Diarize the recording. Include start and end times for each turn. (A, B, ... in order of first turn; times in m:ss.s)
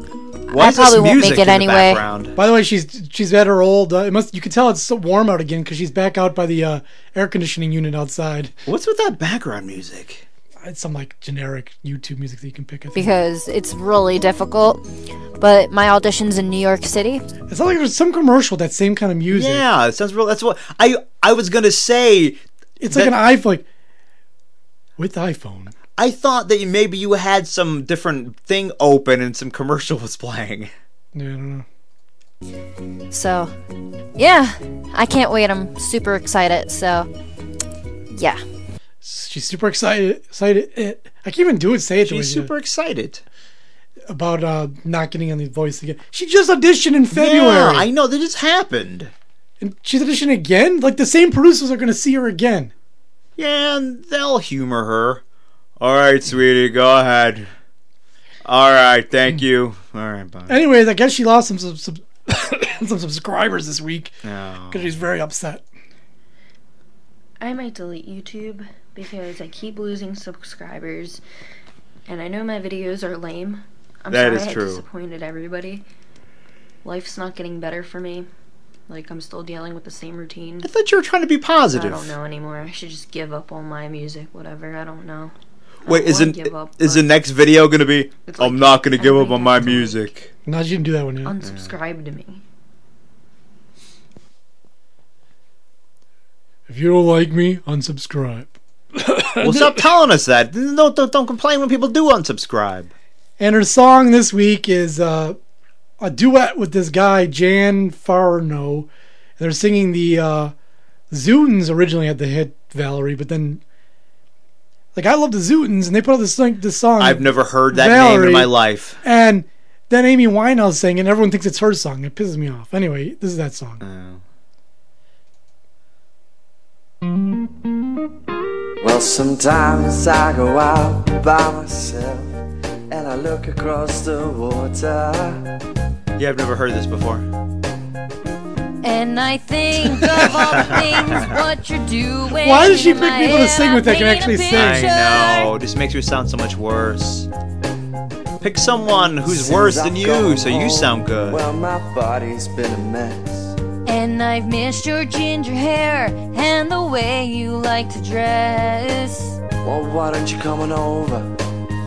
0:00.5-0:02.0 A
0:00.5-0:02.4 B
0:02.4-0:08.5 C
0:08.7-0:10.3 B
0:10.6-0:13.1 C
0:13.0-0:14.8 A
0:15.4-0:17.2 A
0:17.5-0:19.6 C
0:19.3-0:23.2 B
0:22.8-0:23.7 C
0:25.0-0:25.7 C
0:26.0-0:30.7 B
0:31.1-0:31.7 C
0:33.1-0:33.5 A
0:34.2-0:37.1 A
0:38.1-0:38.4 A
0:39.0-0:42.5 C
0:42.0-0:43.2 B
0:44.1-0:47.9 C
0:47.1-0:49.1 B
0:49.6-0:52.7 C
0:53.4-0:55.2 B
0:55.8-0:57.5 B
0:58.4-1:00.6 B
1:00.5-1:04.1 C
1:04.2-1:04.9 B
1:04.7-1:05.6 C
1:07.4-1:11.2 D
1:07.4-1:11.2 A
1:12.1-1:15.8 D
1:12.1-1:13.5 A
1:14.1-1:15.8 A
1:14.1-1:14.8 B
1:16.9-1:18.2 A
1:16.9-1:18.3 D
1:18.9-1:20.7 A
1:18.9-1:20.6 D
1:20.6-1:22.2 B
1:21.8-1:25.3 A
1:21.8-1:25.3 D
1:25.8-1:30.3 B
1:25.9-1:27.0 D
1:25.9-1:27.0 A
1:28.3-1:29.9 A
1:28.4-1:29.8 D
1:30.5-1:31.4 C
1:31.3-1:32.2 A
1:31.3-1:32.4 D
1:31.4-1:31.7 B
1:36.7-1:39.8 C
1:39.4-1:42.9 B
1:43.4-1:45.4 C
1:46.0-1:48.9 C
1:49.4-1:50.5 C
1:51.1-1:53.6 C
1:55.0-1:58.5 C
1:57.0-1:59.0 B
1:59.0-2:03.8 C
2:03.8-2:04.2 B
2:08.8-2:12.4 E
2:12.9-2:15.5 E
2:16.2-2:17.3 B
2:18.8-2:25.5 A
2:20.4-2:21.4 B
2:22.4-2:24.9 C
2:24.5-2:27.3 B
2:28.4-2:31.4 B
2:29.2-2:33.5 E
2:33.9-2:39.4 A
2:39.6-2:41.3 E